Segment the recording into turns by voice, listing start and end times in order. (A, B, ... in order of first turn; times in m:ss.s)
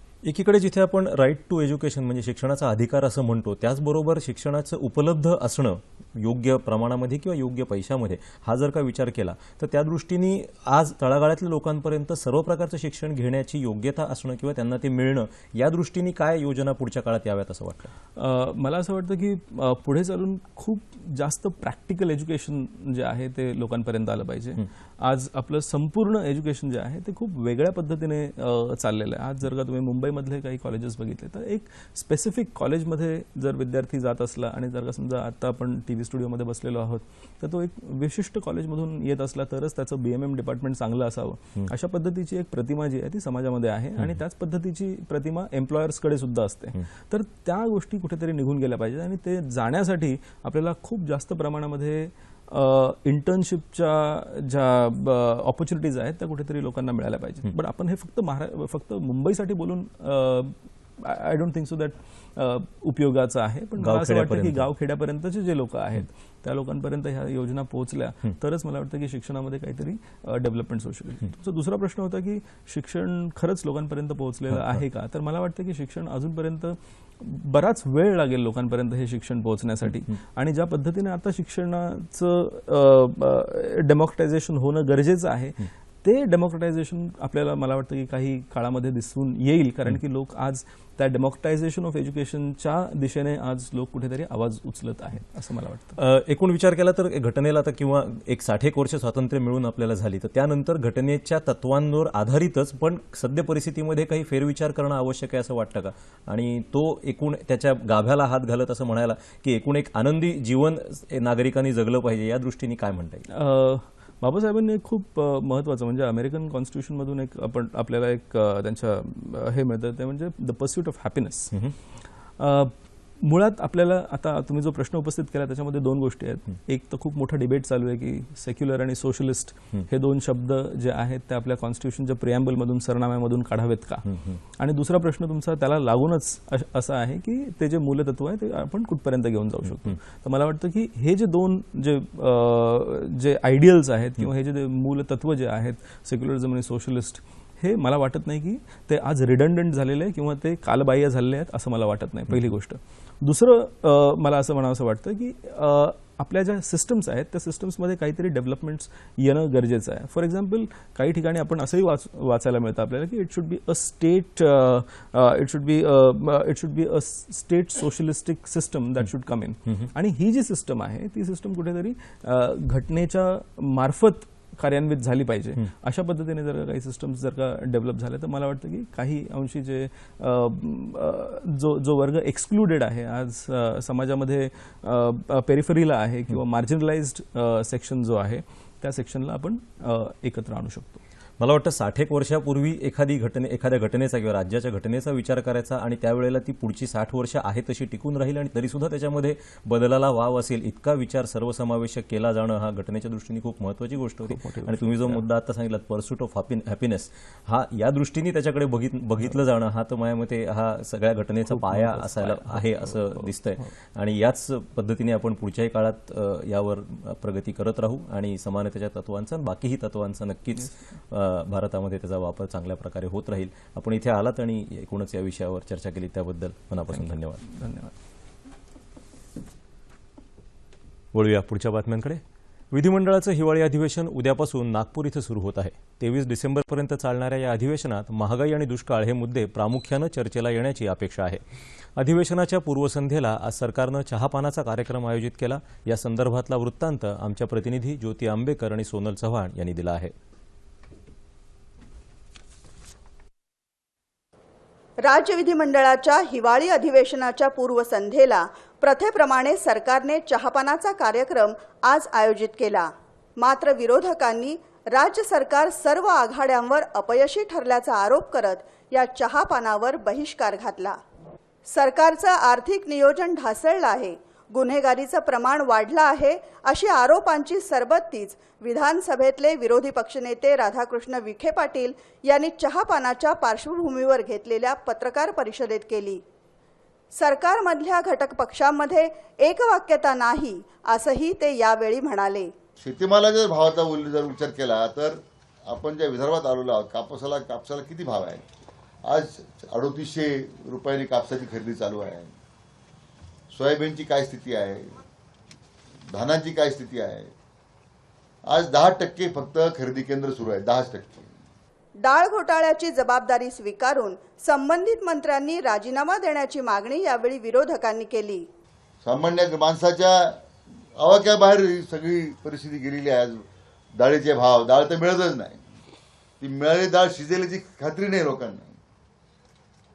0:00.2-0:17.9 A
0:18.2-1:36.0 B
1:03.8-1:04.6 A
1:36.0-1:53.2 A
1:53.3-2:01.5 B
2:02.4-2:14.0 B
2:14.1-2:14.4 A
2:14.6-3:11.0 B
3:11.4-3:47.4 A
3:24.2-3:25.2 B
3:31.5-3:33.7 B
3:46.9-3:47.9 B
3:51.1-4:01.4 A
4:02.0-4:10.1 A
4:15.0-4:31.0 C
4:31.7-4:46.2 C
4:47.1-4:52.5 C
4:52.8-4:58.4 D
4:59.0-5:02.3 D
5:03.5-5:05.0 D
5:06.1-5:07.3 D
5:08.4-5:11.3 D
5:12.0-5:18.5 C
5:19.0-5:20.4 D
5:20.9-5:25.7 D
5:26.4-5:28.8 D